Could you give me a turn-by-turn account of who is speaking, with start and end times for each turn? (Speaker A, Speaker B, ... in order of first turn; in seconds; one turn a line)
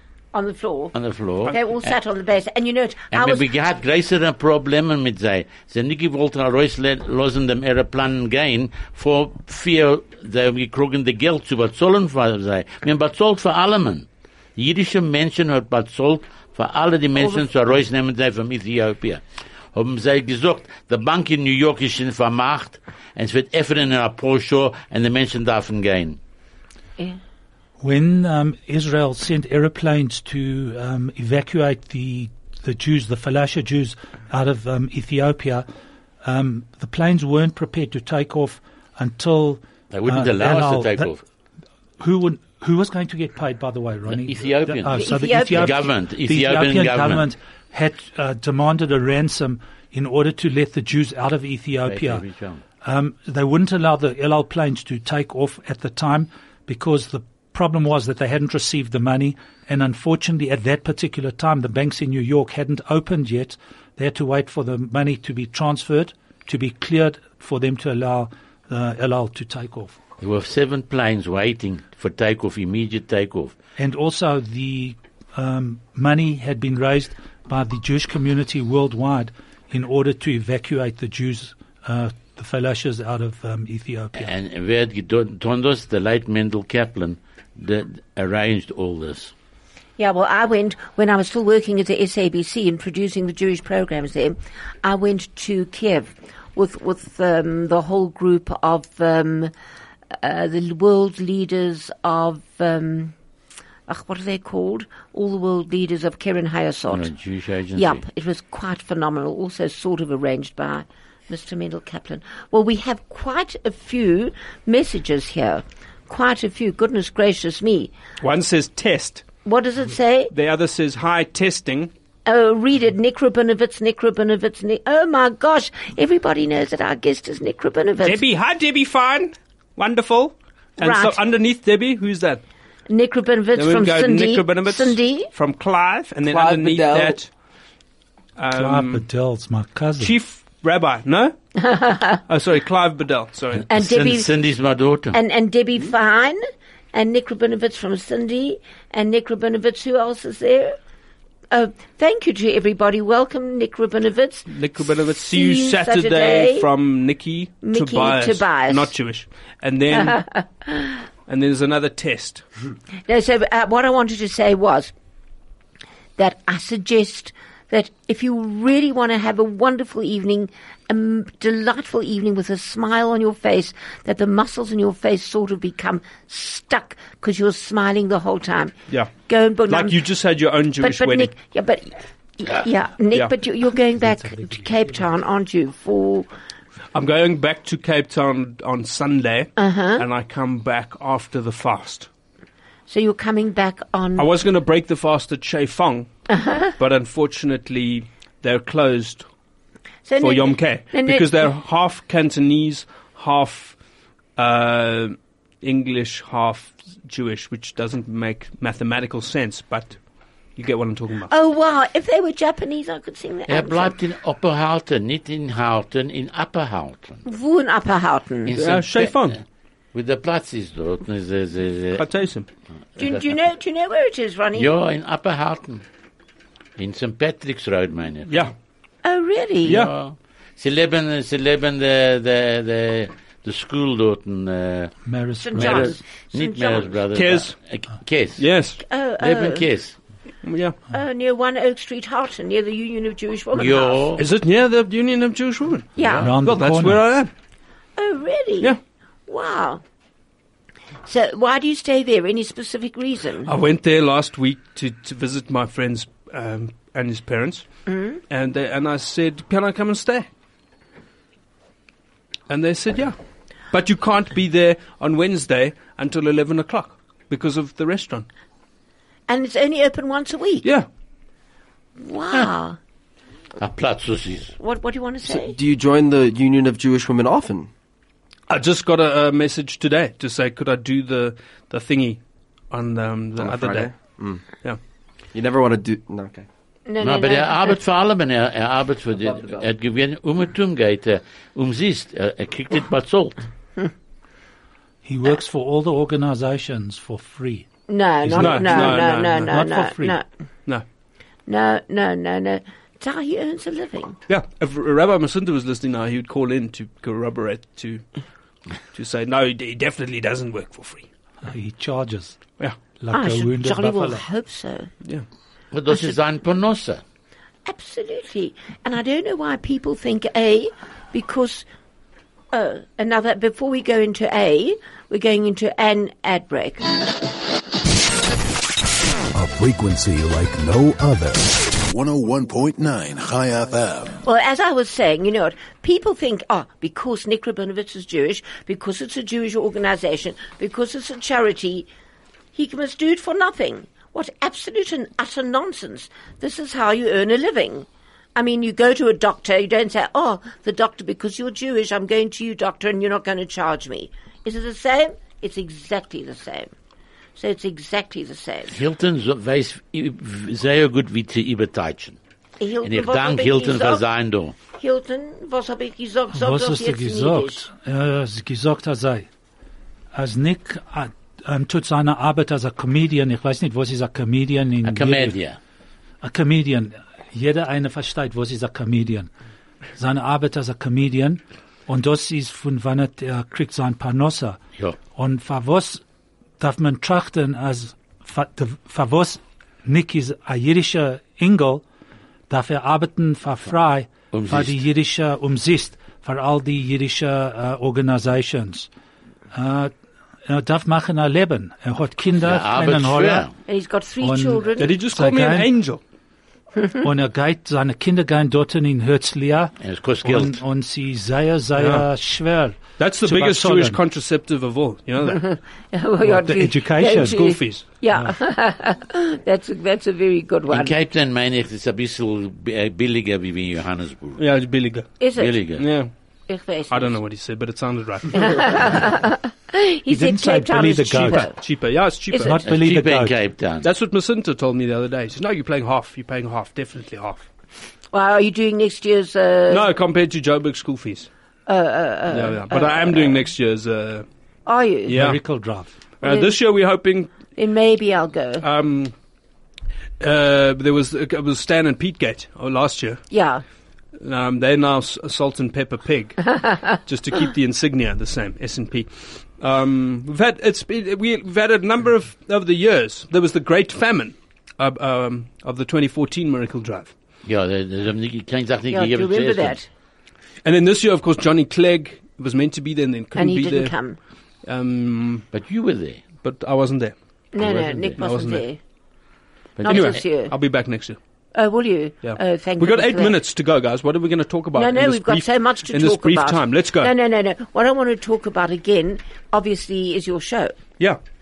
Speaker A: 0.3-0.9
Speaker B: 0.9-1.9
Speaker A: 1.5-3.5
Speaker B: 3.1-19.2
Speaker B: 19.7-26.2
Speaker C: 27.8-35.7
Speaker C: 36.2-41.1
Speaker B: 39.9-41.2
Speaker C: 42.0-52.2
Speaker B: 44.1-47.3
Speaker A: 44.9-45.8
Speaker B: 51.9-52.6
Speaker C: 52.8-70.0
Speaker B: 70.2-73.5
Speaker C: 73.8-84.3
Speaker B: 84.2-89.3
Speaker A: 90.0-99.5
Speaker A: 100.2-103.2
Speaker A: 103.9-107.1
Speaker B: 106.9-108.0
Speaker A: 107.8-117.9
Speaker D: 118.2-119.2
Speaker A: 119.5-120.3
Speaker D: 120.3-121.9
Speaker A: 122.3-128.2
Speaker D: 128.0-132.4
Speaker A: 130.8-131.2
Speaker A: 132.9-135.3
Speaker D: 133.6-137.3
Speaker E: 136.2-137.2
Speaker D: 138.4-139.1
Speaker C: 138.5-140.1
Speaker D: 140.0-141.4
Speaker A: 141.6-142.2
Speaker D: 142.3-143.7
Speaker B: 143.6-145.2
Speaker A: 143.7-144.3
Speaker A: 145.1-146.4
Speaker A: 146.9-150.8
Speaker A: 151.5-156.7
Speaker D: 154.5-160.2
Speaker A: 157.6-158.9
Speaker A: 159.9-160.9
Speaker D: 161.3-162.4
Speaker A: 163.1-164.9
Speaker A: 166.2-178.7
Speaker A: 179.3-180.0
Speaker D: 179.7-181.3
Speaker A: 180.8-186.3
Speaker C: 184.0-185.0
Speaker D: 186.9-192.1
Speaker A: 189.6-190.1
Speaker A: 192.9-194.3
Speaker D: 194.2-199.3
Speaker A: 196.3-196.7
Speaker A: 200.1-201.5
Speaker D: 200.2-203.8
Speaker D: 204.4-210.0
Speaker D: 210.6-211.3
Speaker A: 211.3-214.0
Speaker B: 213.5-217.2
Speaker A: 217.2-218.6
Speaker B: 218.5-219.4
Speaker D: 218.6-219.4
Speaker B: 219.9-222.1
Speaker D: 222.0-222.5
Speaker B: 223.0-223.3
Speaker A: 223.0-224.7
Speaker B: 224.6-225.8
Speaker B: 226.8-228.5
Speaker D: 228.3-228.5
Speaker A: 229.0-229.8
Speaker B: 229.7-235.0
Speaker D: 229.7-229.9
Speaker C: 235.1-236.0
Speaker A: 235.4-237.0
Speaker B: 235.5-238.5
Speaker D: 237.1-237.6
Speaker D: 238.4-238.8
Speaker A: 238.9-239.7
Speaker B: 239.2-240.0
Speaker D: 240.4-240.8
Speaker A: 240.9-244.1
Speaker B: 243.6-244.2
Speaker D: 244.2-247.3
Speaker A: 246.0-246.3
Speaker B: 246.1-246.3
Speaker C: 246.2-247.0
Speaker A: 248.0-248.8
Speaker A: 249.3-249.8
Speaker A: 251.1-253.5
Speaker D: 253.5-257.7
Speaker A: 257.9-258.2
Speaker D: 258.3-260.3
Speaker D: 262.5-263.2
Speaker D: 263.7-268.3
Speaker A: 269.3-270.7
Speaker A: 272.0-272.8
Speaker B: 273.6-274.5
Speaker A: 274.6-275.6
Speaker E: 275.3-277.7
Speaker D: 278.5-282.2
Speaker D: 282.7-284.8
Speaker E: 283.4-284.4
Speaker E: 285.3-286.5
Speaker A: 286.9-287.7
Speaker B: 287.0-293.4
Speaker E: 289.2-289.7
Speaker C: 295.0-297.7
Speaker A: 297.9-300.2
Speaker C: 298.2-300.2
Speaker D: 298.4-299.6
Speaker A: 301.5-304.2
Speaker D: 304.3-308.1
Speaker D: 308.9-311.1
Speaker C: 311.4-312.4
Speaker C: 313.0-314.2
Speaker A: 313.1-314.9
Speaker B: 315.7-317.0
Speaker A: 317.7-321.7
Speaker A: 322.5-326.9
Speaker F: 329.3-334.2
Speaker A: 334.2-341.9
Speaker A: 342.5-356.7
Speaker A: 357.4-358.8
Speaker B: 358.7-362.2
Speaker A: 362.6-364.0
Speaker B: 362.8-364.6
Speaker A: 364.8-367.7
Speaker C: 366.3-369.3
Speaker C: 370.1-375.4
Speaker B: 374.8-375.6
Speaker C: 376.2-379.3
Speaker C: 380.0-384.6
Speaker C: 385.1-386.0
Speaker C: 386.6-391.9
Speaker C: 392.5-398.9
Speaker B: 394.3-394.8
Speaker C: 399.5-399.9
Speaker C: 400.5-403.5
Speaker B: 402.4-403.5
Speaker A: 403.7-404.9
Speaker C: 404.2-405.7
Speaker D: 404.8-406.0
Speaker C: 407.0-414.0
Speaker B: 409.8-410.6
Speaker D: 411.8-412.1
Speaker D: 413.0-415.4
Speaker A: 415.3-420.9
Speaker C: 416.2-417.6
Speaker D: 417.1-417.9
Speaker B: 420.7-424.4
Speaker D: 424.4-425.2
Speaker A: 425.2-425.6
Speaker B: 425.4-425.9
Speaker D: 425.8-426.1
Speaker A: 426.5-427.2
Speaker D: 426.9-429.0
Speaker A: 428.4-431.6
Speaker C: 430.1-431.5
Speaker D: 431.3-432.6
Speaker A: 432.3-432.6
Speaker C: 432.4-433.3
Speaker B: 432.6-433.9
Speaker D: 433.8-437.5
Speaker A: 438.1-439.9
Speaker D: 439.7-441.3
Speaker A: 441.7-443.5
Speaker D: 442.3-444.3
Speaker A: 444.7-445.2
Speaker D: 445.1-445.4
Speaker C: 445.1-445.9
Speaker D: 446.2-447.3
Speaker A: 446.2-446.6
Speaker A: 447.6-448.6
Speaker D: 448.6-449.1
Speaker D: 450.2-453.2
Speaker A: 453.3-453.6
Speaker D: 454.2-467.1
Speaker B: 467.4-469.8
Speaker A: 468.9-469.9
Speaker D: 470.6-473.9
Speaker A: 473.4-474.2
Speaker D: 474.7-475.5
Speaker B: 475.5-476.2
Speaker D: 476.4-477.1
Speaker A: 477.5-478.8
Speaker B: 477.6-478.2
Speaker D: 478.1-478.6
Speaker B: 479.8-480.2
Speaker A: 479.8-480.5
Speaker D: 479.8-481.2
Speaker A: 481.5-483.4
Speaker D: 482.2-487.1
Speaker A: 484.7-490.8